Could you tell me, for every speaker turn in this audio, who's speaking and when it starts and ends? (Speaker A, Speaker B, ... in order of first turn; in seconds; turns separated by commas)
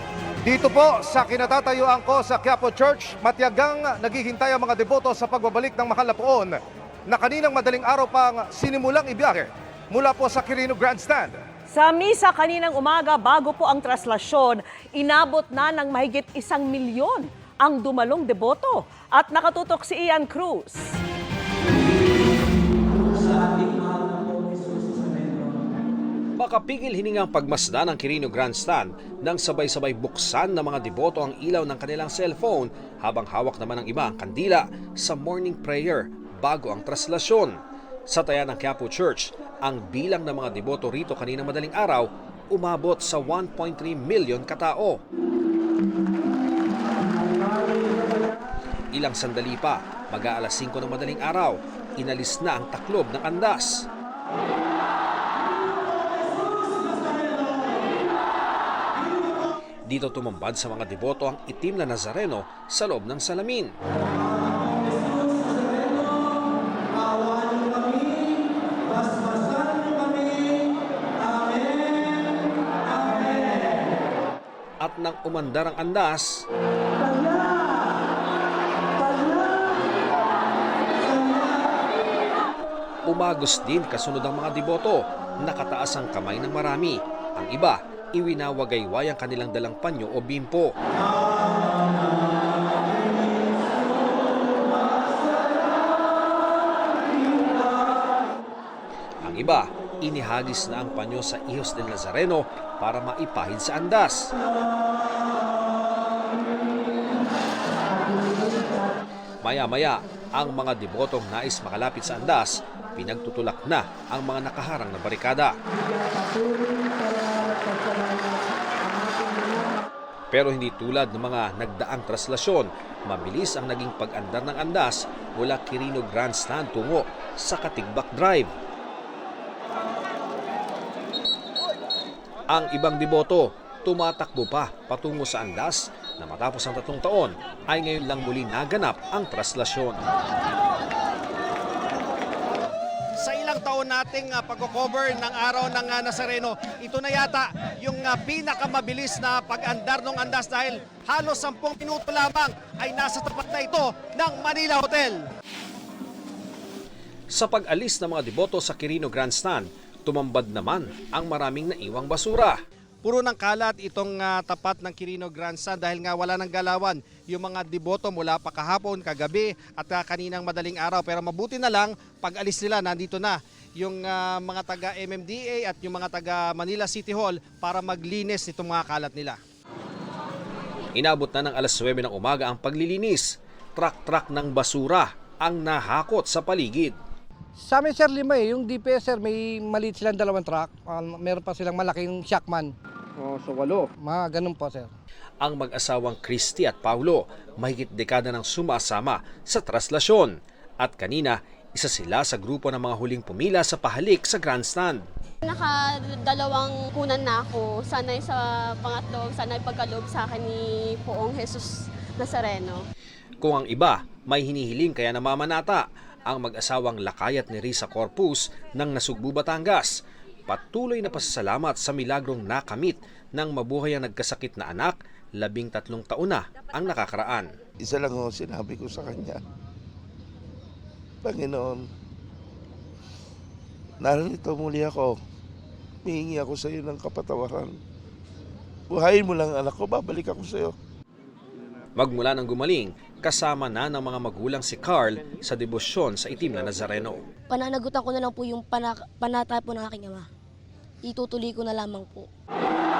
Speaker A: 0.5-0.7, Speaker B: 0.6-6.5, Speaker B: 7.1-9.3, Speaker B: 10.0-11.1, Speaker C: 11.7-20.9, Speaker D: 26.4-37.5, Speaker D: 38.1-44.9, Speaker D: 48.9-53.8, Speaker D: 59.9-63.7, Speaker D: 74.8-76.4, Speaker D: 83.1-90.7, Speaker D: 99.2-104.2, Speaker D: 109.4-115.5, Speaker E: 117.7-118.1, Speaker D: 120.3-128.5, Speaker D: 132.5-140.0, Speaker A: 143.2-155.2, Speaker D: 157.3-162.6, Speaker A: 163.0-179.4, Speaker D: 180.9-186.9, Speaker E: 187.6-194.9, Speaker D: 195.4-205.0, Speaker F: 205.4-212.8, Speaker D: 213.4-219.9, Speaker D: 220.5-227.5, Speaker G: 227.8-229.4, Speaker G: 231.2-231.8, Speaker G: 234.0-235.1, Speaker G: 236.0-237.8, Speaker G: 238.9-240.8, Speaker D: 241.9-247.2, Speaker H: 247.5-250.3, Speaker H: 251.0-252.3